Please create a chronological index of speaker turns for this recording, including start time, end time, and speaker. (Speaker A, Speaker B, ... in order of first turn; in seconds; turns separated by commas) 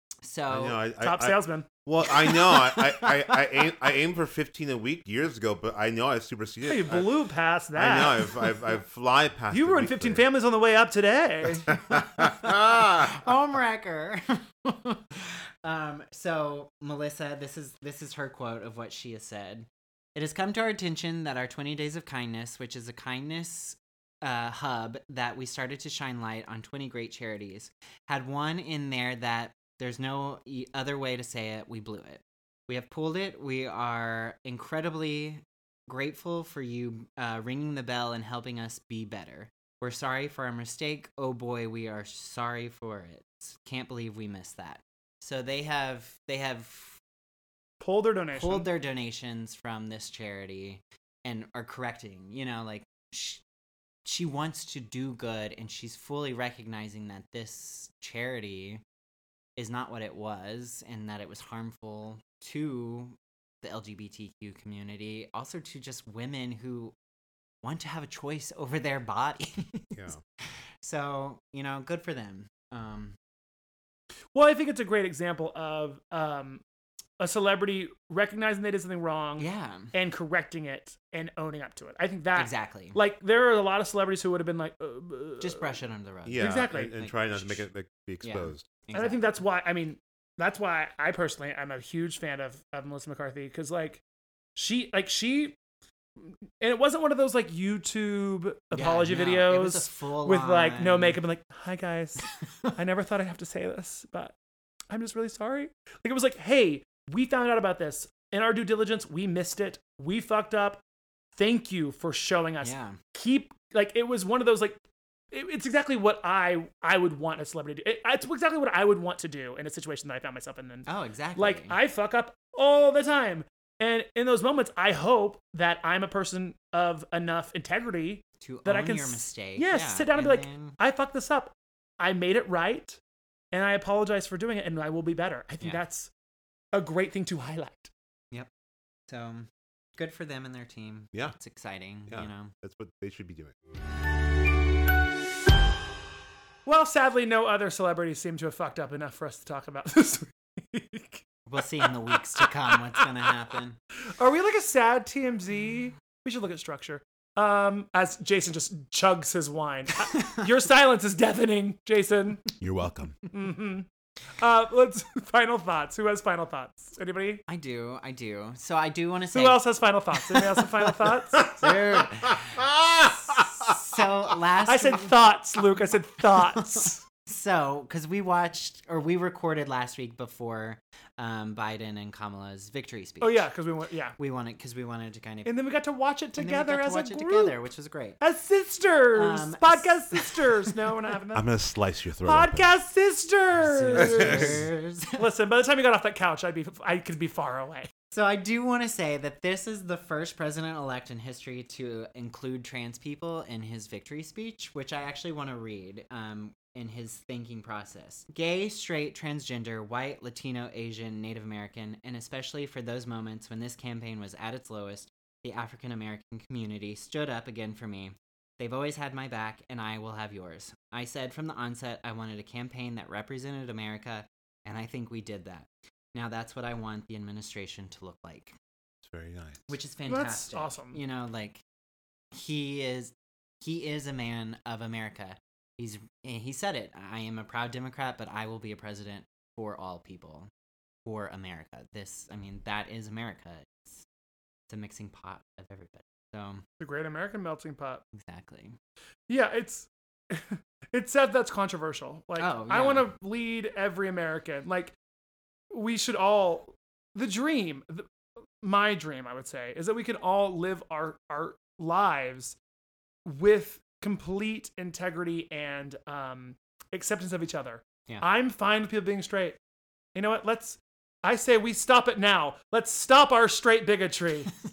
Speaker A: 0.2-0.8, Speaker B: 0.5-7.1, Speaker C: 1.0-1.7, Speaker A: 2.1-3.9, Speaker C: 6.7-8.3, Speaker B: 7.8-10.3, Speaker C: 9.5-11.7, Speaker B: 11.7-13.2, Speaker A: 11.9-47.0, Speaker C: 47.8-48.7, Speaker A: 48.3-53.4, Speaker A: 54.0-58.8, Speaker A: 59.6-66.9, Speaker A: 67.6-70.1, Speaker A: 70.8-73.2, Speaker C: 74.3-76.6, Speaker C: 77.2-85.7, Speaker A: 79.4-79.9, Speaker A: 82.3-83.0, Speaker A: 85.4-87.7, Speaker B: 86.2-88.7, Speaker C: 86.4-86.9, Speaker A: 88.2-89.3, Speaker C: 88.9-94.0, Speaker C: 94.6-95.6, Speaker C: 96.6-102.2, Speaker A: 98.8-101.2, Speaker C: 102.8-104.3, Speaker C: 104.9-110.8, Speaker C: 111.3-114.8, Speaker A: 112.6-113.0, Speaker C: 115.3-133.0, Speaker A: 120.9-121.8, Speaker A: 128.4-130.8, Speaker C: 133.5-136.1, Speaker C: 136.7-137.9, Speaker A: 139.1-142.5, Speaker B: 142.1-143.6, Speaker C: 146.7-153.3, Speaker A: 151.5-153.8, Speaker C: 154.2-162.4, Speaker A: 160.1-160.4, Speaker B: 162.6-163.2, Speaker C: 163.3-163.9, Speaker C: 164.4-167.4, Speaker A: 167.5-169.7, Speaker C: 169.3-171.5, Speaker A: 170.3-175.2, Speaker B: 171.7-173.7, Speaker C: 174.6-177.0, Speaker A: 176.3-183.5, Speaker C: 183.2-184.2, Speaker A: 184.2-185.5, Speaker C: 185.4-187.6, Speaker A: 186.4-188.2, Speaker C: 188.2-191.5, Speaker A: 189.2-190.8, Speaker B: 191.3-192.7, Speaker C: 192.2-197.9, Speaker A: 193.6-195.2, Speaker B: 194.0-194.7, Speaker A: 198.1-228.6, Speaker B: 229.0-229.6, Speaker A: 229.7-231.6, Speaker C: 230.1-231.0, Speaker A: 232.3-240.5, Speaker A: 241.1-244.1, Speaker A: 244.7-246.6, Speaker C: 246.8-248.0, Speaker A: 248.1-248.8, Speaker C: 249.3-254.9, Speaker A: 252.4-253.1, Speaker C: 255.7-258.1, Speaker C: 258.6-262.6, Speaker C: 263.2-269.6, Speaker C: 270.1-274.5